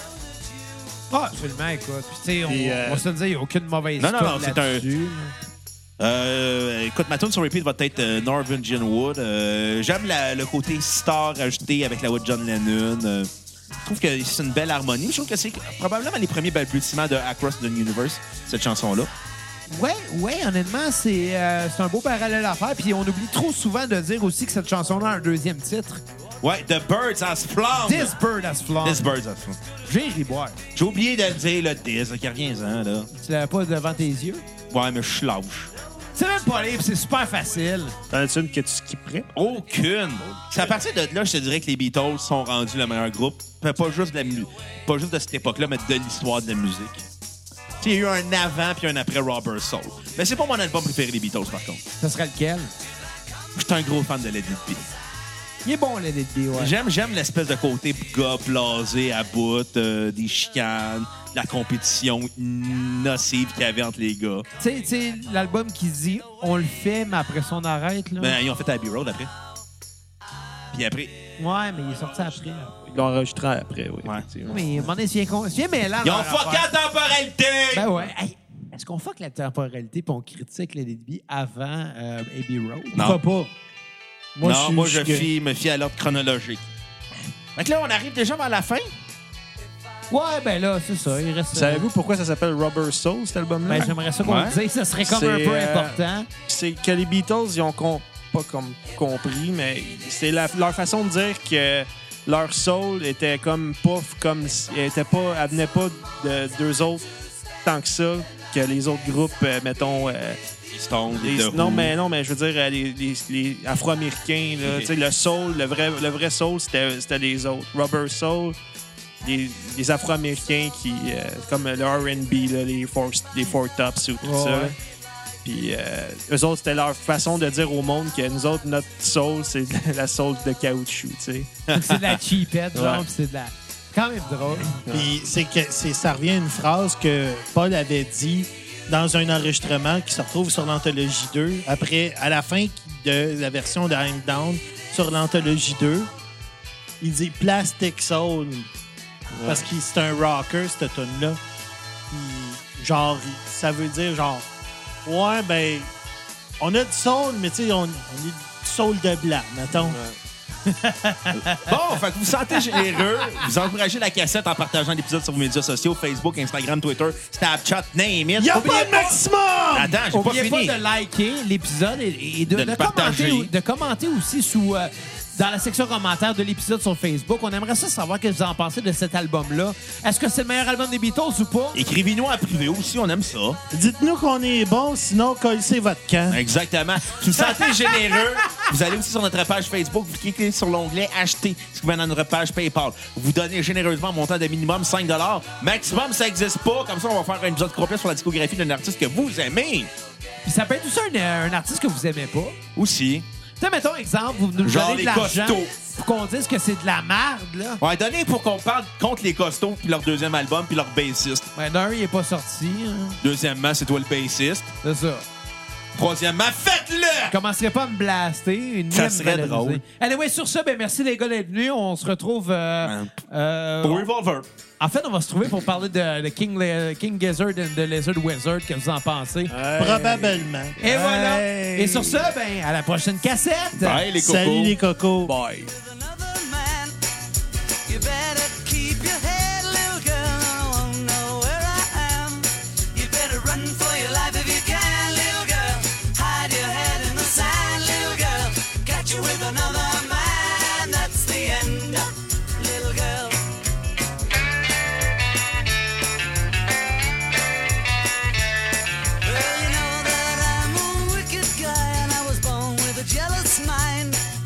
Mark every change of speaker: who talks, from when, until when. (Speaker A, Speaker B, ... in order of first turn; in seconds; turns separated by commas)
Speaker A: 1.1-5.3, Speaker B: 2.5-3.0, Speaker C: 4.0-4.8, Speaker C: 6.0-13.3, Speaker C: 13.8-19.1, Speaker A: 19.7-26.0, Speaker C: 26.4-28.1, Speaker A: 27.8-29.1, Speaker C: 28.8-29.6, Speaker A: 29.8-30.6, Speaker C: 30.7-33.1, Speaker A: 33.1-34.4, Speaker C: 34.7-35.7, Speaker A: 36.1-38.0, Speaker B: 38.1-39.3, Speaker C: 39.3-47.0, Speaker C: 47.8-51.8, Speaker A: 52.0-52.7, Speaker C: 53.5-54.9, Speaker A: 55.6-56.7, Speaker C: 56.5-64.5, Speaker A: 64.6-68.3, Speaker C: 68.2-69.3, Speaker C: 70.7-71.1, Speaker A: 71.4-72.7, Speaker B: 72.8-74.7, Speaker A: 74.5-76.7, Speaker C: 76.0-78.1, Speaker A: 77.7-83.2, Speaker C: 82.9-83.2, Speaker D: 83.0-83.5, Speaker D: 84.3-85.3, Speaker C: 84.4-86.7, Speaker C: 87.5-88.9, Speaker A: 90.1-91.9, Speaker B: 91.5-93.9, Speaker A: 93.7-96.3, Speaker C: 94.2-94.6, Speaker B: 95.0-107.1, Speaker B: 107.6-110.4, Speaker C: 110.7-111.9, Speaker B: 111.1-118.5, Speaker C: 114.6-114.9, Speaker B: 119.2-124.7, Speaker A: 124.2-124.8, Speaker B: 125.4-131.5, Speaker C: 131.7-132.0, Speaker A: 131.7-134.8, Speaker B: 132.7-133.0, Speaker D: 134.9-146.1, Speaker D: 147.0-148.7, Speaker B: 149.3-149.7, Speaker D: 149.4-151.4, Speaker D: 152.1-154.4, Speaker D: 155.0-155.9, Speaker D: 156.6-160.0, Speaker B: 159.8-160.2, Speaker A: 160.8-161.7, Speaker C: 161.3-168.7, Speaker D: 168.4-170.0, Speaker A: 168.5-169.2, Speaker C: 169.7-170.8, Speaker A: 170.1-181.8, Speaker C: 172.5-173.5, Speaker C: 181.7-183.6, Speaker D: 183.7-186.4, Speaker C: 186.3-199.9, Speaker A: 187.3-188.7, Speaker A: 200.4-202.6, Speaker C: 202.8-203.2, Speaker A: 203.6-207.8, Speaker C: 204.6-205.7, Speaker C: 207.8-211.5, Speaker A: 211.6-213.2, Speaker C: 213.2-214.7, Speaker A: 214.8-215.2, Speaker C: 215.9-217.3, Speaker A: 217.3-224.1, Speaker C: 218.9-219.8, Speaker C: 222.8-223.2, Speaker C: 223.8-224.4, Speaker A: 224.8-229.5, Speaker B: 229.5-232.3, Speaker D: 229.7-230.8, Speaker A: 230.8-234.1, Speaker C: 233.8-234.8, Speaker D: 234.1-235.3, Speaker B: 235.2-235.7, Speaker E: 235.4-237.0, Speaker E: 237.8-253.5, Speaker E: 259.2-264.2